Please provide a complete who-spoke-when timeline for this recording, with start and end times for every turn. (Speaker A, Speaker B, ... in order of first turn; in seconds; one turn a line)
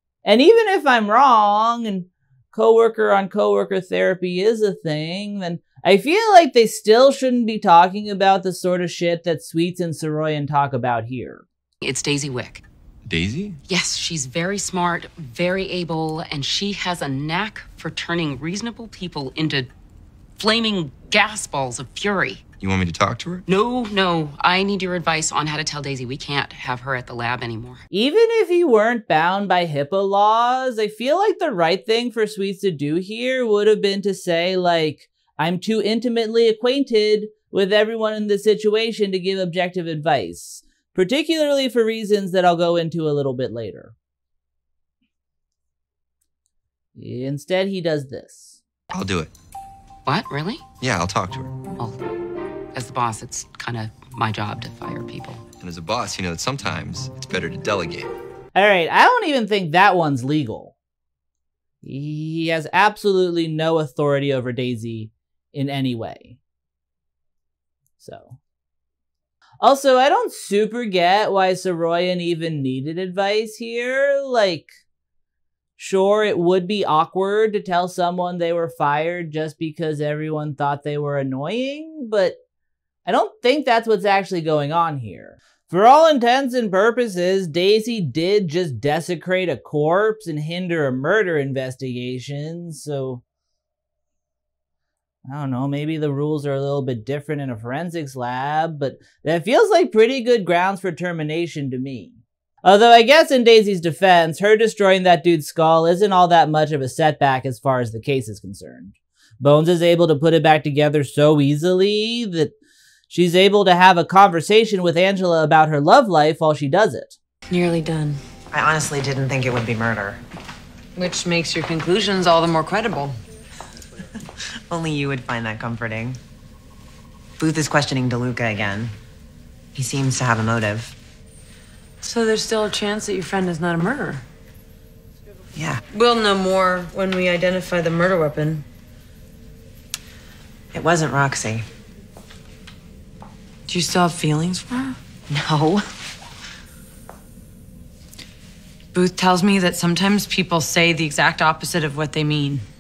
Speaker A: 0.2-11.4
Speaker B: 11.8-12.6
Speaker C: 13.1-13.6
Speaker B: 13.7-19.7
Speaker B: 20.4-22.4
Speaker C: 22.6-23.5
Speaker B: 23.5-27.8
Speaker A: 27.9-43.9
Speaker A: 47.0-48.6
Speaker C: 48.9-49.3
Speaker B: 50.0-50.6
Speaker C: 50.8-51.5
Speaker B: 51.8-52.0
Speaker B: 52.7-55.4
Speaker C: 55.6-58.1
Speaker A: 58.5-60.8
Speaker A: 61.8-66.4
Speaker A: 68.0-68.4
Speaker A: 69.6-74.8
Speaker A: 75.8-82.4
Speaker A: 83.1-93.2
Speaker A: 95.3-112.5
Speaker A: 113.1-117.2
Speaker D: 117.5-118.2
Speaker E: 118.5-120.2
Speaker D: 121.0-123.2
Speaker E: 124.7-126.2
Speaker E: 127.4-129.0
Speaker E: 129.8-131.0
Speaker D: 132.0-134.2
Speaker E: 135.6-135.8
Speaker D: 135.9-138.7
Speaker E: 140.7-141.7
Speaker D: 143.7-145.0
Speaker E: 145.3-145.9
Speaker D: 148.9-152.7